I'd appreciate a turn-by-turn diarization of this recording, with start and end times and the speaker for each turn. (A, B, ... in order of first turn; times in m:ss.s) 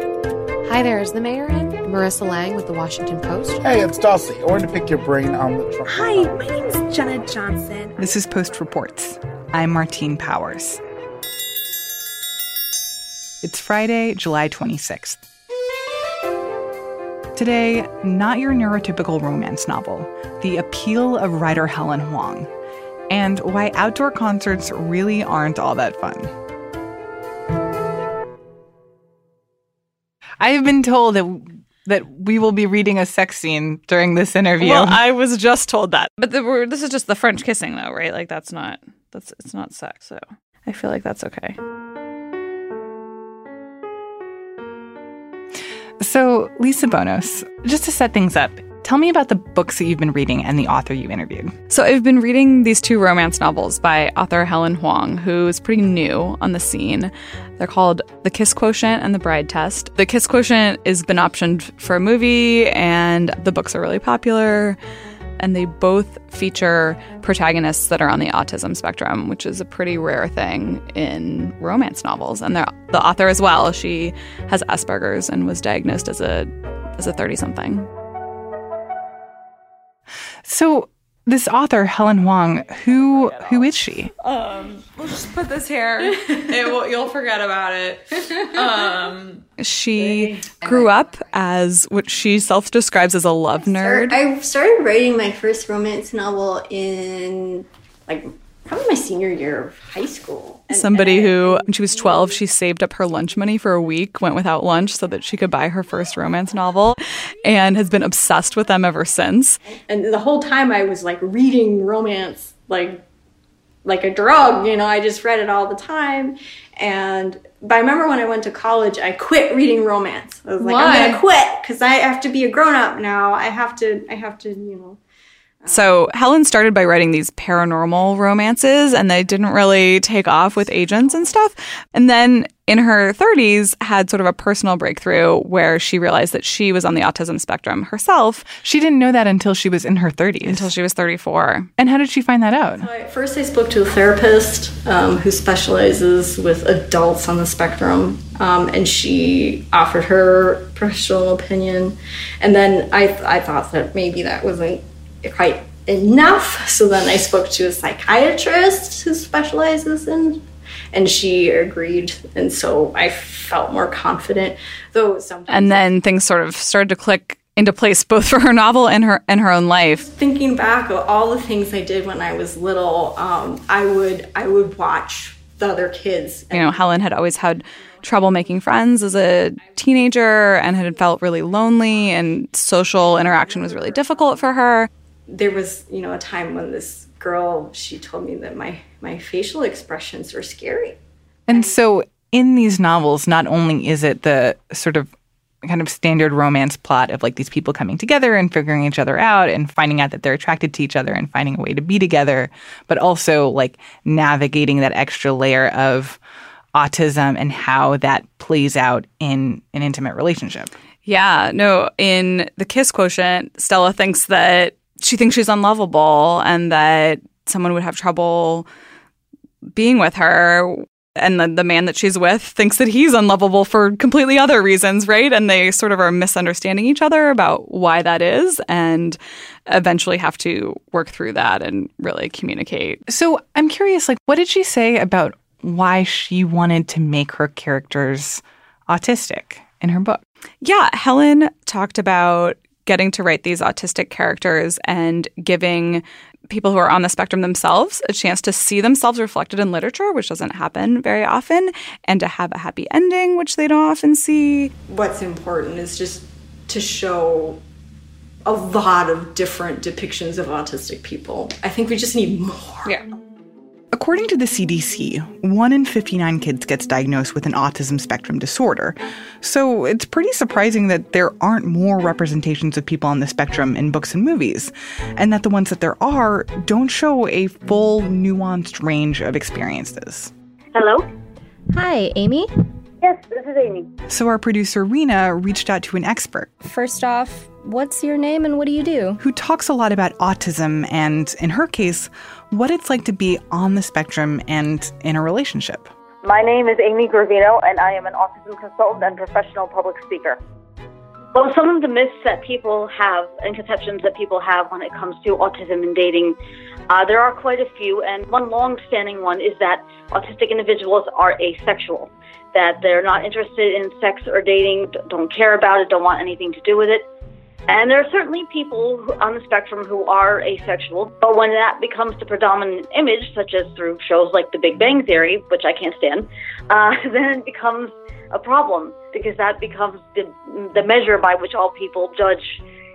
0:00.7-0:03.5 A
0:03.6-0:06.3 B
0:05.9-0:08.0 C
0:08.0-0:10.8 D
0:13.4-0:15.2 D
0:17.4-0:22.5 D
0:23.1-0:26.3 D
0:30.4-0:35.0 D
0:34.6-0:41.6 E
0:46.0-0:51.5 D
0:51.7-1:04.8 E
1:05.4-1:17.9 E
1:20.4-1:24.1 D
1:23.2-1:23.5 E
1:24.3-1:34.2 E
1:28.2-1:28.7 F
1:30.0-1:30.5 F
1:33.8-1:42.3 F
1:40.7-1:49.6 E
1:49.7-1:53.0 F
1:53.8-2:05.0 F
2:00.6-2:01.2 G
2:05.7-2:18.5 E
2:18.6-2:20.7 D
2:20.4-2:21.7 E
2:21.8-2:22.9 D
2:22.8-2:40.4 F
2:40.9-2:45.9 F
2:45.5-2:50.1 E
2:50.0-2:56.7 F
2:56.5-3:04.9 E
3:05.3-3:11.0 F
3:11.5-3:15.1 D
3:15.6-3:26.2 D
3:26.7-3:30.7 D
3:31.0-3:38.7 E
3:39.8-3:53.0 E
3:53.1-4:00.2 D
4:00.6-4:14.7 E
4:14.9-4:17.6 F
4:18.4-4:23.0 F
4:23.9-4:40.3 D
4:40.7-4:41.1 H
4:41.7-4:42.5 G
4:43.0-4:43.9 H
4:44.1-4:46.5 D
4:46.6-4:49.2 G
4:49.2-4:55.9 D
4:56.2-5:00.4 H
5:01.4-5:06.4 H
5:06.9-5:17.1 H
5:17.7-5:32.6 H